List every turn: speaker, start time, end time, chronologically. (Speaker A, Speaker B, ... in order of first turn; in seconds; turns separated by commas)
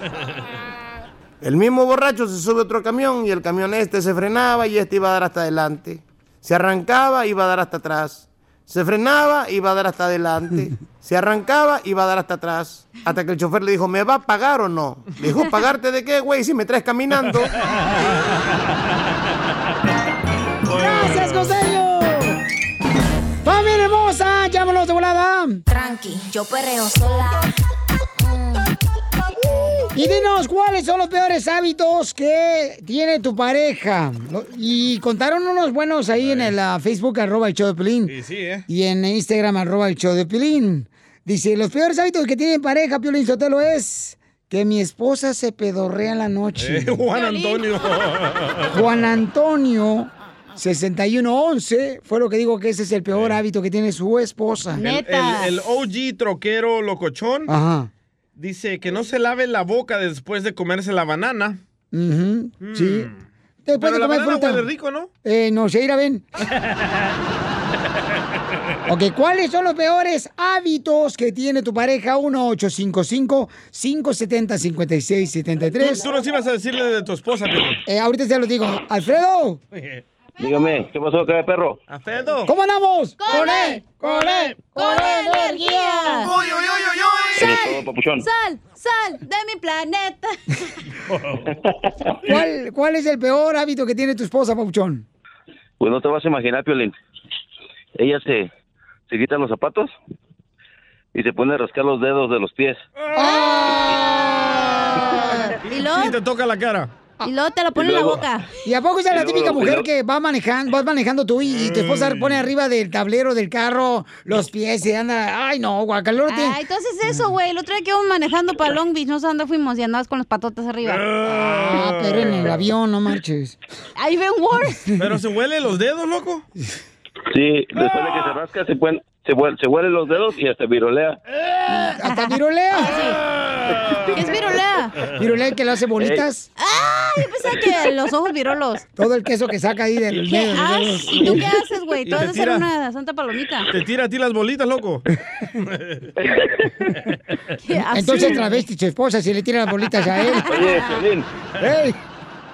Speaker A: 1.4-17.5, Speaker B: 17.6-18.3, Speaker B: 20.6-21.5, Speaker C: 20.7-22.4, Speaker C: 23.4-25.6, Speaker D: 25.7-27.0, Speaker C: 29.9-38.1, Speaker B: 36.2-36.5, Speaker B: 38.1-38.6, Speaker C: 38.7-47.0, Speaker B: 46.6-48.7, Speaker D: 47.1-47.6, Speaker C: 48.7-54.8, Speaker B: 53.1-53.4, Speaker D: 54.8-55.5, Speaker B: 54.8-57.5, Speaker C: 57.5-57.9, Speaker B: 58.4-61.6, Speaker C: 61.9-63.1, Speaker B: 62.6-63.2, Speaker C: 63.6-64.6, Speaker B: 63.8-65.1, Speaker C: 65.2-66.2, Speaker C: 68.9-76.0, Speaker B: 75.8-77.8, Speaker C: 77.8-79.6, Speaker B: 79.7-80.0, Speaker E: 80.4-81.8, Speaker B: 81.9-82.5, Speaker C: 82.5-86.3, Speaker D: 83.2-83.8, Speaker B: 84.1-84.5, Speaker D: 84.7-86.3, Speaker B: 86.2-87.5, Speaker E: 87.4-88.3, Speaker D: 87.4-90.4, Speaker B: 91.1-91.5, Speaker C: 92.2-95.0, Speaker E: 95.8-96.9, Speaker E: 98.0-98.5, Speaker E: 99.1-99.9, Speaker E: 101.1-102.8, Speaker B: 103.0-103.9, Speaker C: 103.1-105.5, Speaker D: 105.0-106.2, Speaker B: 105.6-106.9, Speaker D: 107.2-108.5, Speaker E: 107.8-108.2, Speaker C: 108.6-116.6, Speaker E: 109.1-109.9, Speaker B: 111.5-112.4, Speaker D: 116.3-121.1, Speaker B: 120.8-122.6, Speaker C: 121.2-123.6, Speaker D: 124.0-124.9, Speaker B: 125.0-126.4, Speaker E: 127.3-131.2, Speaker B: 127.8-128.2, Speaker C: 131.7-133.0, Speaker D: 132.1-133.2, Speaker B: 133.3-134.3, Speaker D: 134.1-134.9, Speaker C: 135.1-136.5, Speaker E: 136.0-136.2, Speaker D: 136.6-138.8, Speaker C: 139.0-141.5, Speaker D: 140.2-143.7, Speaker B: 142.0-142.7, Speaker B: 143.7-145.0, Speaker B: 145.6-146.1, Speaker E: 146.2-146.5, Speaker D: 147.6-148.6, Speaker C: 147.9-150.5, Speaker D: 150.2-151.0, Speaker E: 150.5-151.3, Speaker C: 151.6-152.0